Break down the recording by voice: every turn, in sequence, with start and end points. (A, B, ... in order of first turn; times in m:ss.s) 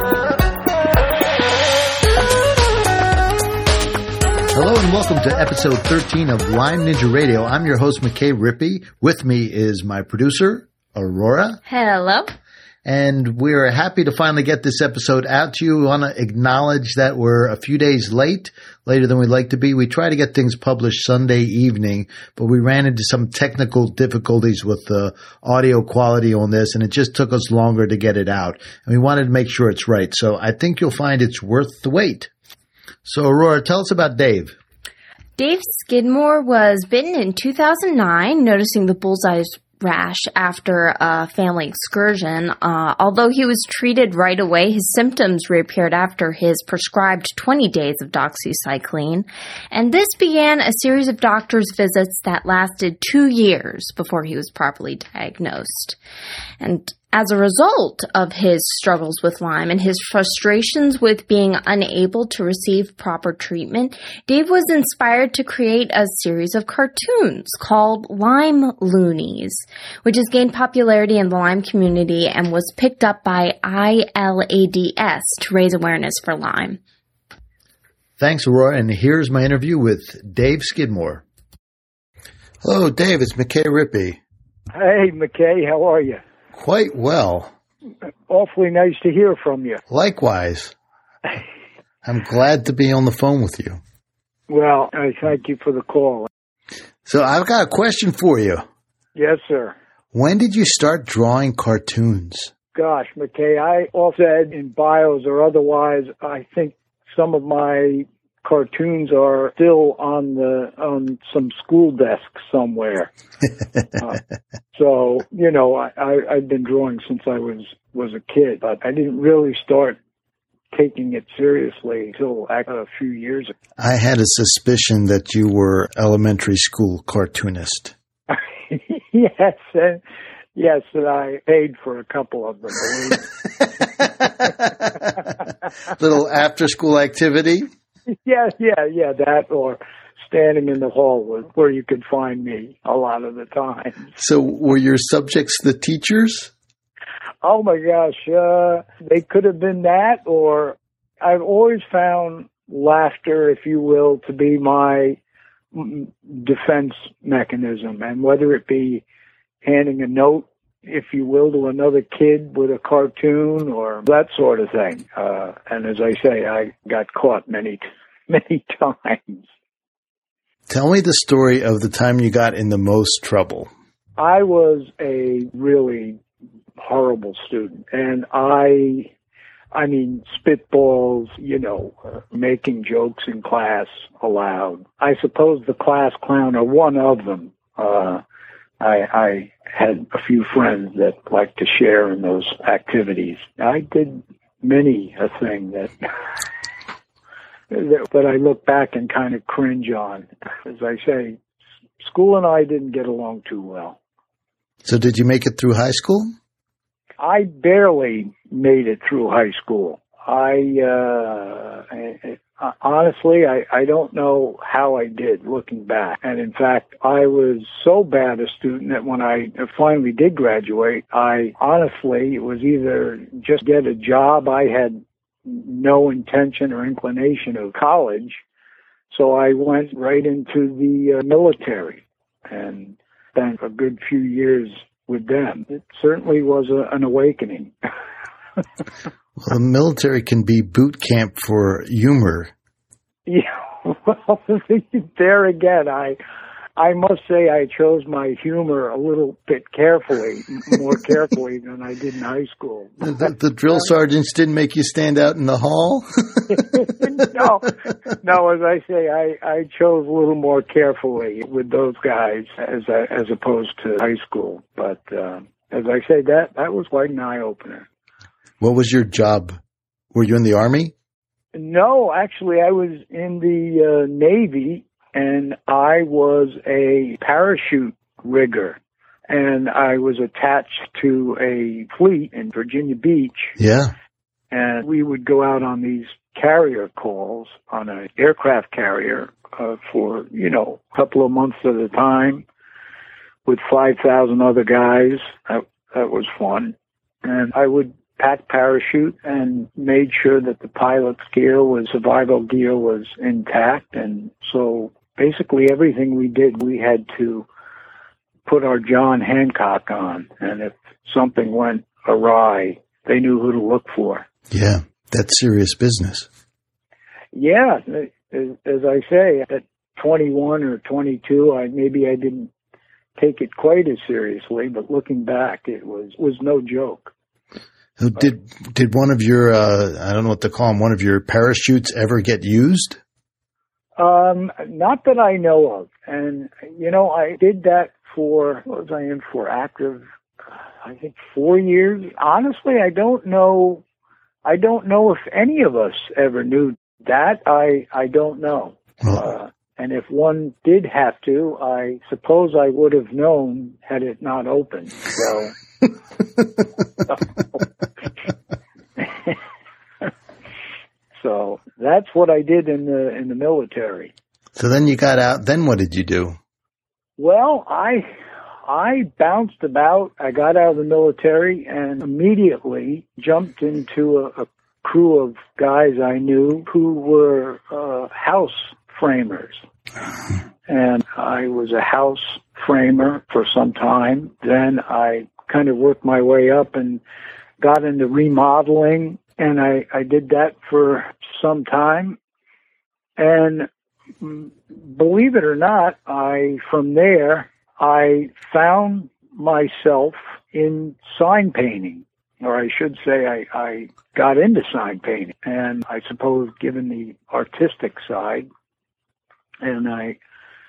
0:04.5-0:11.6 A
0:11.7-0:12.3 B
0:12.8-0:32.3 A
0:33.0-0:34.6 A
0:35.4-0:56.0 B
0:56.6-1:16.8 B
1:18.2-1:21.2 A
1:22.6-1:24.2 A
1:24.7-1:26.2 C
1:26.5-1:27.5 A
1:28.3-1:29.8 C
1:29.9-1:30.7 A
1:32.0-1:33.8 A
1:34.5-1:36.3 C
1:37.0-1:38.6 A
1:39.1-1:39.7 C
1:40.1-1:42.5 A
1:42.7-1:53.1 C
1:54.7-2:00.0 C
2:00.7-2:03.5 C
2:03.8-2:07.9 A
2:08.3-2:10.0 C
2:10.5-2:13.3 C
2:14.0-2:15.2 A
2:15.9-2:17.7 A
2:18.1-2:24.1 C
2:24.2-2:26.5 A
2:27.4-2:35.2 C
2:35.7-2:39.0 C
2:39.6-2:49.4 C
2:50.7-2:53.7 A
2:54.2-2:56.2 C
2:56.8-2:59.1 C
2:59.7-3:08.2 C
3:08.8-3:15.9 C
3:17.7-3:21.4 C
3:22.0-3:24.0 C
3:24.8-3:26.3 A
3:27.2-3:48.4 C
3:49.1-3:57.7 C
3:59.4-4:02.5 A
4:03.2-4:06.2 C
4:06.8-4:13.2 C
4:13.0-4:16.8 A
4:16.5-4:27.9 C
4:28.6-4:29.6 A
4:30.1-4:30.9 A
4:31.5-4:43.6 C
4:43.6-4:43.9 A
4:44.5-4:52.4 C
4:53.4-5:07.5 C
5:08.4-5:14.2 C
5:14.5-5:16.3 A
5:17.3-5:22.5 C
5:23.2-5:27.1 C
5:28.0-5:33.0 A
5:34.0-5:40.0 C
5:40.8-5:43.8 C
5:44.4-5:55.5 C
5:49.0-5:49.3 A
6:01.2-6:04.1 C
6:04.6-6:06.4 A
6:07.2-6:08.1 C
6:08.6-6:19.6 C
6:20.7-6:27.0 C
6:27.6-6:32.2 C
6:33.2-6:33.7 C
6:34.2-6:48.5 C
6:49.6-6:50.2 C